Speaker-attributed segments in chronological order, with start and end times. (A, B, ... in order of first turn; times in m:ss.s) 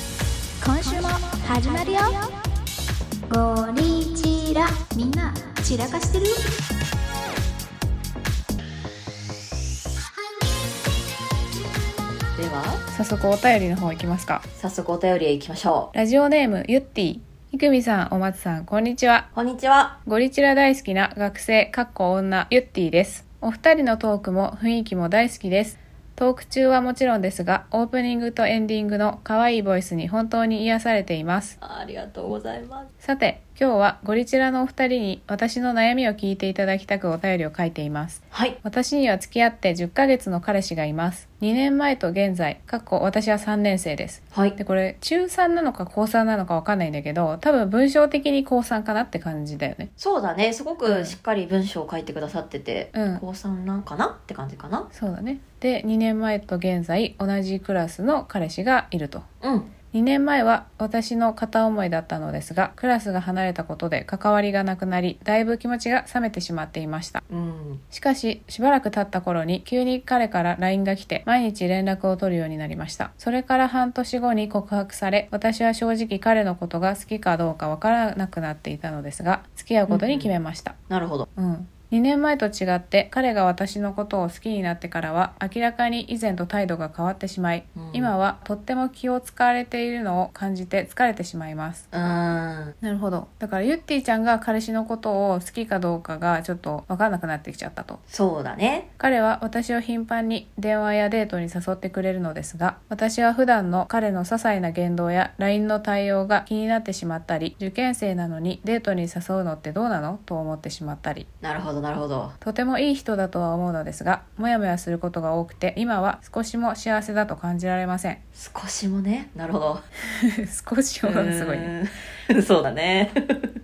0:00.6-0:02.2 A
0:03.3-0:06.4 A
0:12.4-0:12.8 B
0:12.9-0:14.4 C
0:14.6-0:15.9 B
0:15.9-0:19.3 C
0:19.3-0:20.0 B
0:20.0-0:31.6 C
0:31.6-0:32.9 B
0:33.0-0:49.9 C
0:38.3-0:38.6 B
0:50.0-0:54.9 B
0:50.8-0:51.2 C
0:52.9-0:53.2 C
0:54.9-0:59.2 C
0:59.4-0:59.7 B
0:59.9-1:07.2 C
1:07.3-1:07.8 B
1:07.9-1:20.7 C
1:19.9-1:20.3 B
1:20.9-1:21.2 B
1:21.3-1:31.9 C
1:27.7-1:28.1 B
1:31.9-1:32.8 B
1:32.8-1:38.0 C
1:38.1-1:38.9 B
1:39.0-1:51.3 C
1:51.4-1:52.3 B
1:52.4-1:58.2 C
1:58.4-1:59.8 B
2:00.0-2:01.7 C
2:01.0-2:03.5 B